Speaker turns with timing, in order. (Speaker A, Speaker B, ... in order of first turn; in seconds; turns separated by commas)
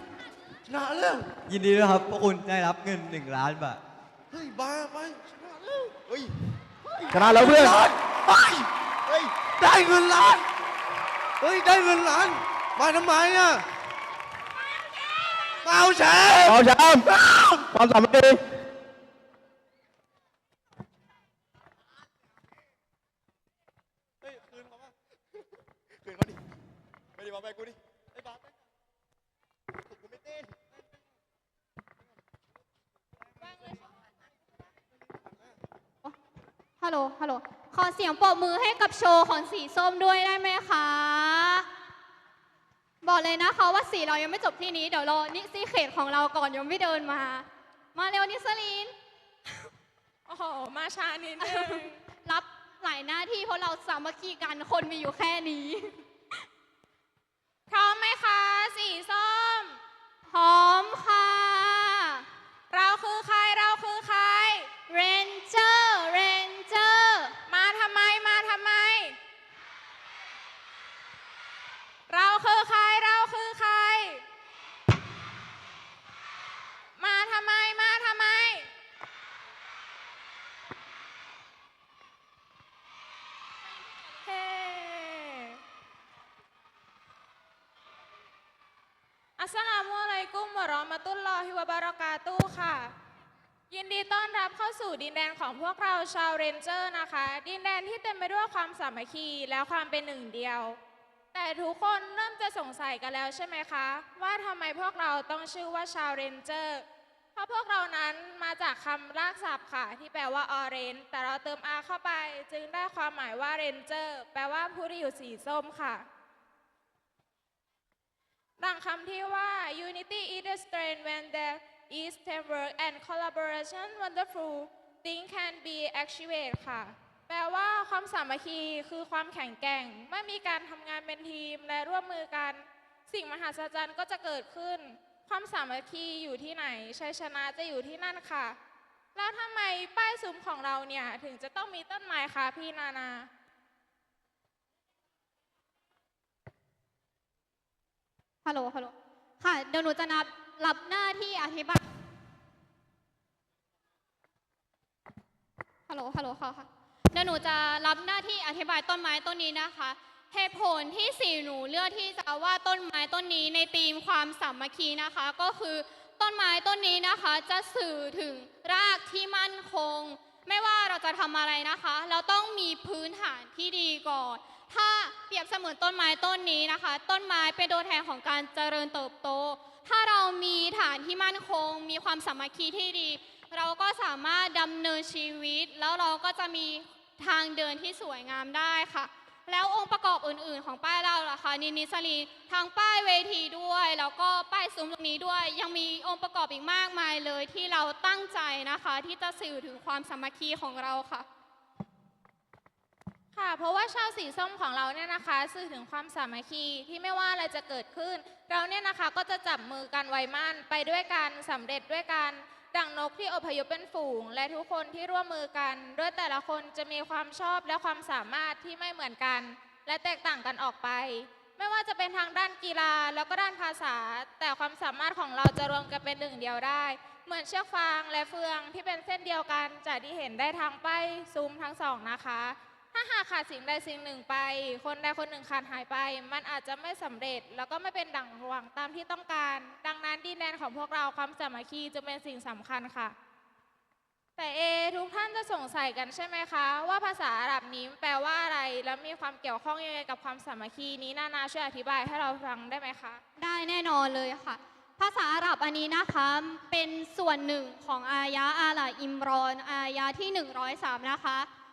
Speaker A: 0.7-1.3, Speaker B: 1.4-3.8, Speaker A: 4.3-6.0, Speaker C: 7.1-7.8, Speaker A: 7.2-8.7, Speaker A: 9.4-10.5, Speaker A: 11.4-13.7, Speaker A: 15.6-17.6, Speaker C: 16.5-17.1, Speaker C: 17.7-18.4, Speaker A: 24.2-24.9, Speaker D: 36.8-41.6, Speaker D: 43.0-48.9, Speaker E: 50.3-52.0, Speaker D: 51.4-56.0, Speaker E: 57.7-59.8, Speaker D: 60.3-62.2, Speaker E: 62.7-64.7, Speaker D: 64.9-67.3, Speaker E: 67.5-69.2, Speaker E: 72.1-74.2, Speaker E: 77.0-78.7, Speaker E: 84.2-85.6, Speaker E: 89.4-92.9, Speaker E: 93.7-100.8, Speaker E: 101.3-116.0, Speaker E: 118.6-138.6, Speaker E: 139.1-143.3, Speaker D: 148.4-151.8, Speaker D: 155.9-201.2, Speaker E: 203.3-243.1, Speaker E: 244.4-253.2, Speaker D: 253.4-261.5